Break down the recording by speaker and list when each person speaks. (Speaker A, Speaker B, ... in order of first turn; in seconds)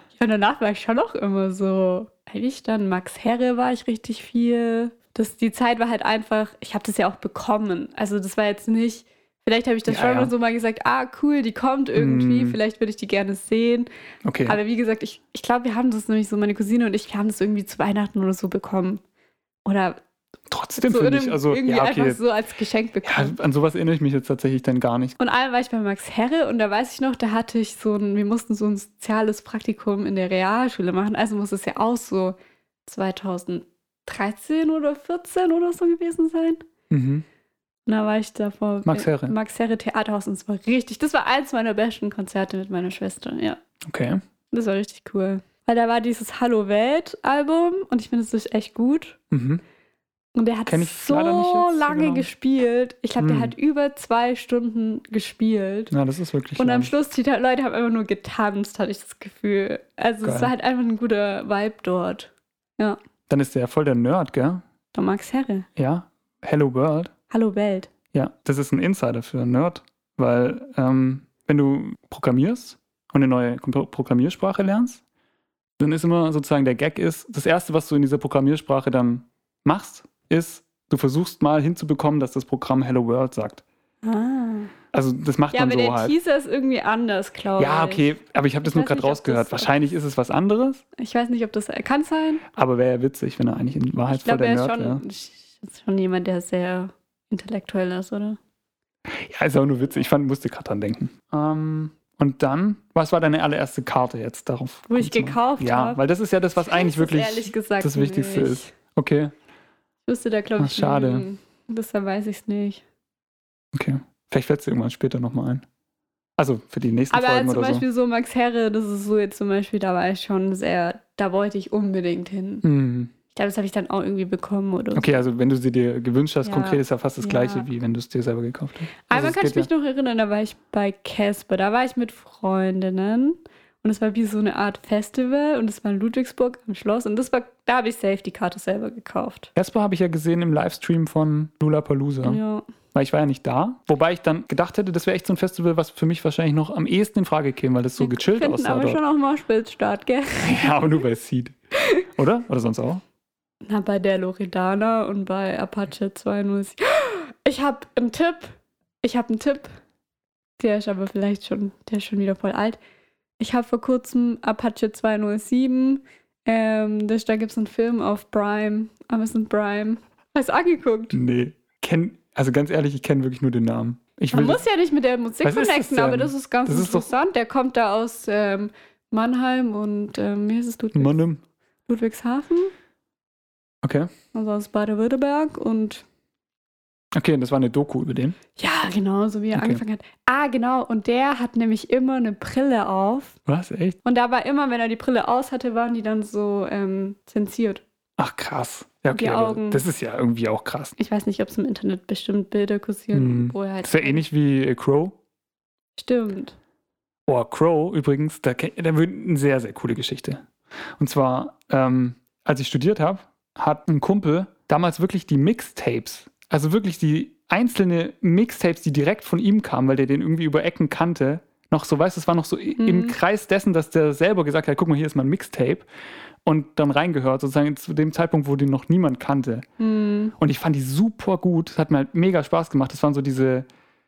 Speaker A: 0.2-13.9, 14.5-19.0, 19.6-20.0, 20.8-23.4, 25.2-36.6, 37.9-43.6, 44.5-49.2, 50.4-55.9, 56.6-63.0, 64.9-65.7, 67.3-67.9, 84.0-84.7, 85.5-88.1, 88.6-89.7, 91.0-92.5, 94.2-98.4, 104.9-106.0, 106.6-108.7, 110.1-112.8, 117.1-122.7, 123.3-125.2, 126.5-127.7, 129.1-139.5, 142.2-142.7, 148.0-151.0, 153.6-159.8, 160.6-162.8, 163.4-171.2, 174.3-181.2, 181.9-182.7, 184.3-186.0, 188.6-193.4, 194.0-197.8, 199.1-199.8, 201.0-204.2, 206.0-206.6, 222.8-223.2, 229.8-230.3
Speaker B: 9.9-10.3, 12.0-12.6, 14.2-14.6, 20.5-22.2, 23.0-25.2, 36.9-37.2, 38.9-39.4, 43.9-44.2, 49.3-49.6, 50.7-52.3, 53.2-53.5, 55.9-56.9, 60.2-60.5, 63.3-64.6, 65.8-67.1, 68.1-75.0, 75.8-83.6, 84.9-86.2, 87.6-90.8, 92.5-95.0, 99.1-109.3, 110.6-111.2, 113.7-115.7, 116.4-117.8, 122.6-123.1, 125.0-129.7, 139.6-142.4, 142.9-149.0, 150.4-151.6, 152.2-153.0, 171.1-174.6, 175.4-177.1, 180.9-181.4, 183.8-184.1, 187.2-188.4, 189.6-189.8, 193.5-194.0, 198.2-200.9, 203.1-205.2, 207.3-210.4, 211.0-225.9, 226.4-229.7, 230.4-233.7